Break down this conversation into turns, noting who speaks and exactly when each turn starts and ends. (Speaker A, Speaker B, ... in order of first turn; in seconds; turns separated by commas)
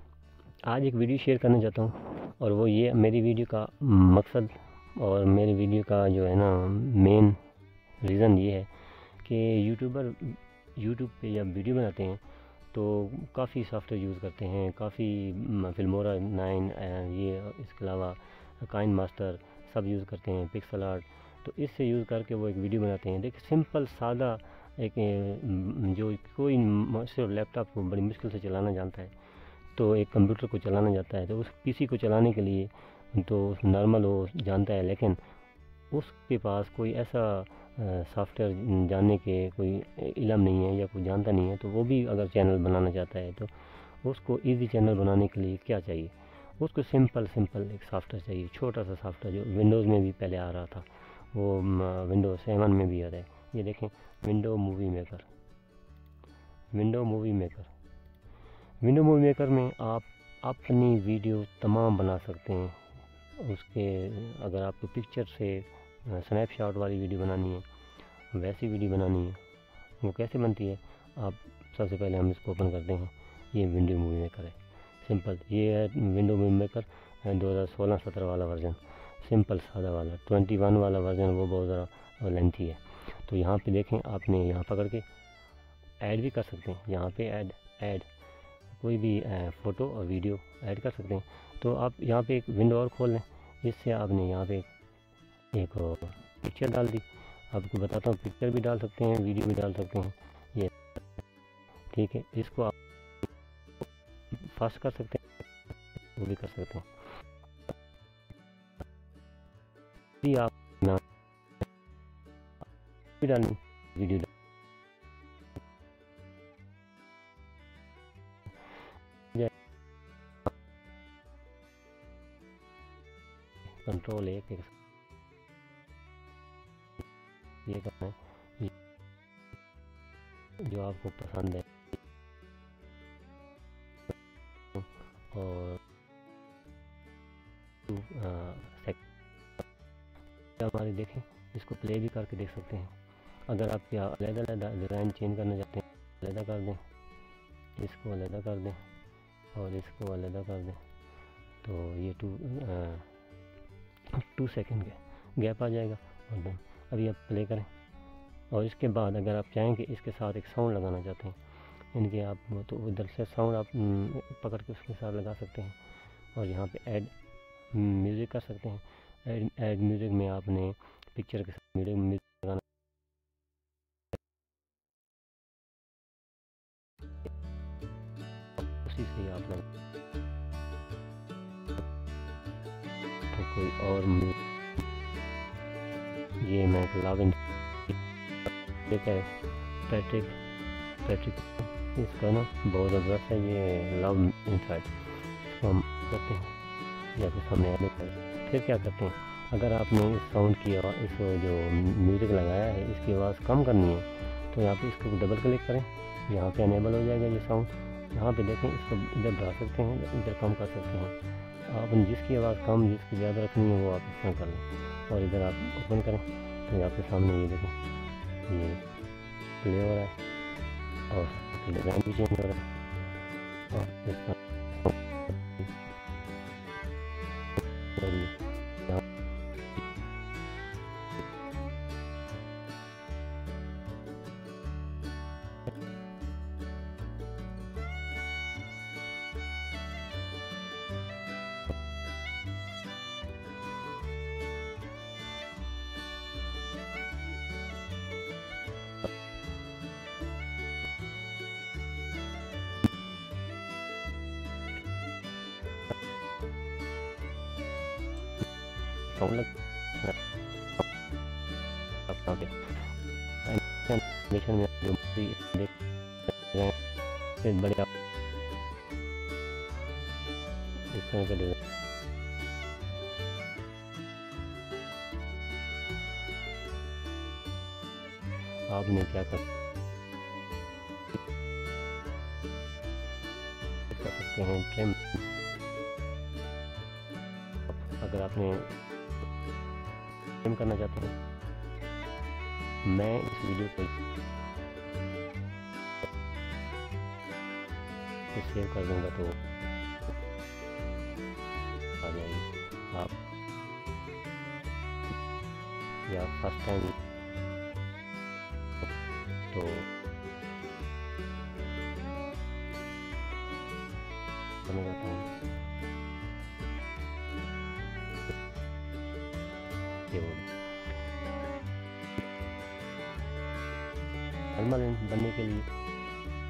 Speaker A: 0.6-7.4, Speaker A: 8.0-29.1, Speaker A: 29.8-35.2, Speaker A: 35.9-55.3, Speaker A: 56.7-57.7, Speaker A: 58.8-67.7, Speaker A: 68.3-69.4, Speaker A: 70.0-85.1, Speaker A: 86.0-88.1, Speaker A: 88.7-94.7, Speaker A: 95.5-100.9, Speaker A: 101.9-102.8, Speaker A: 104.3-105.2, Speaker A: 106.2-106.9, Speaker A: 110.2-111.0, Speaker A: 113.2-114.3, Speaker A: 123.7-124.7, Speaker A: 127.7-128.7, Speaker A: 130.6-131.7, Speaker A: 134.8-135.8, Speaker A: 137.9-139.0, Speaker A: 140.6-143.0, Speaker A: 143.5-146.8, Speaker A: 147.8-148.8, Speaker A: 149.5-150.8, Speaker A: 151.6-153.1, Speaker A: 154.1-157.7, Speaker A: 158.5-161.4, Speaker A: 161.9-165.8, Speaker A: 166.3-167.2, Speaker A: 167.7-172.7, Speaker A: 178.8-179.7, Speaker A: 183.3-184.4, Speaker A: 186.4-187.4, Speaker A: 188.9-190.4, Speaker A: 191.0-196.5, Speaker A: 197.1-217.8, Speaker A: 218.5-218.8, Speaker A: 219.6-220.2, Speaker A: 221.1-222.7, Speaker A: 223.7-225.0, Speaker A: 227.9-229.0, Speaker A: 259.1-260.1, Speaker A: 262.1-262.7, Speaker A: 263.4-265.7, Speaker A: 267.4-267.9, Speaker A: 270.9-271.6, Speaker A: 278.7-279.4, Speaker A: 283.9-285.0, Speaker A: 287.9-288.7, Speaker A: 290.4-291.2, Speaker A: 292.8-293.9, Speaker A: 298.3-299.4, Speaker A: 302.0-303.1, Speaker A: 306.1-307.0, Speaker A: 309.5-309.9, Speaker A: 314.6-315.3, Speaker A: 320.1-320.5, Speaker A: 324.5-325.7